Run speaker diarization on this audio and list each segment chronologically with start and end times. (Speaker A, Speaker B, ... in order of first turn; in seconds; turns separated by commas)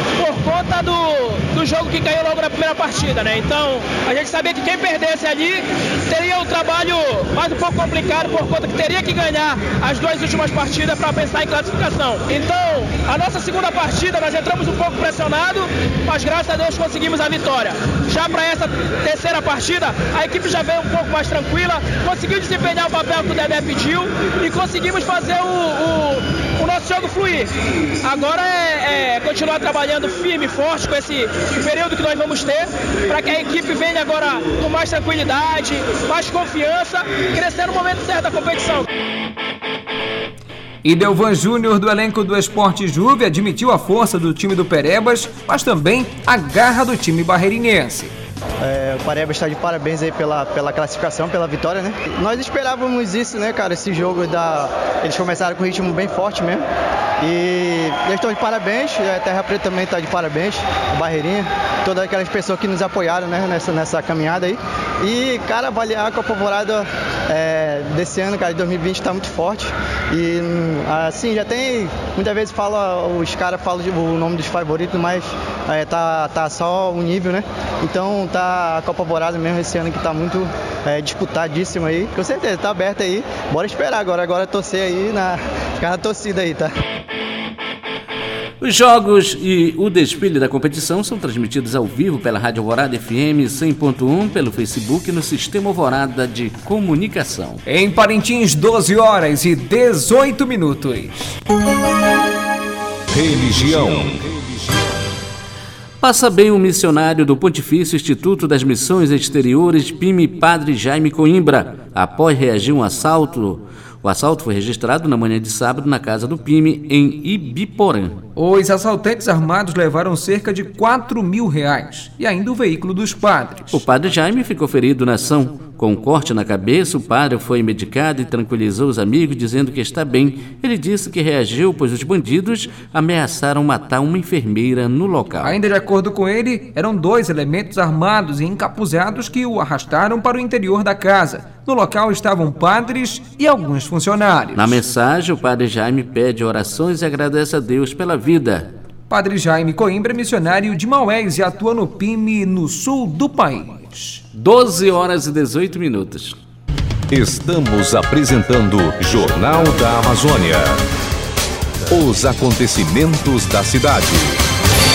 Speaker A: 0.2-38.9, Speaker B: 40.8-48.1, Speaker C: 48.6-56.6, Speaker C: 57.2-86.7, Speaker D: 88.6-97.6, Speaker B: 97.7-101.3, Speaker E: 103.1-104.9, Speaker D: 106.0-118.2, Speaker B: 118.3-123.8, Speaker D: 123.7-135.5, Speaker B: 135.4-144.8, Speaker D: 144.6-148.7, Speaker B: 149.1-154.2, Speaker D: 154.3-156.3, Speaker E: 157.1-160.8, Speaker E: 161.9-164.4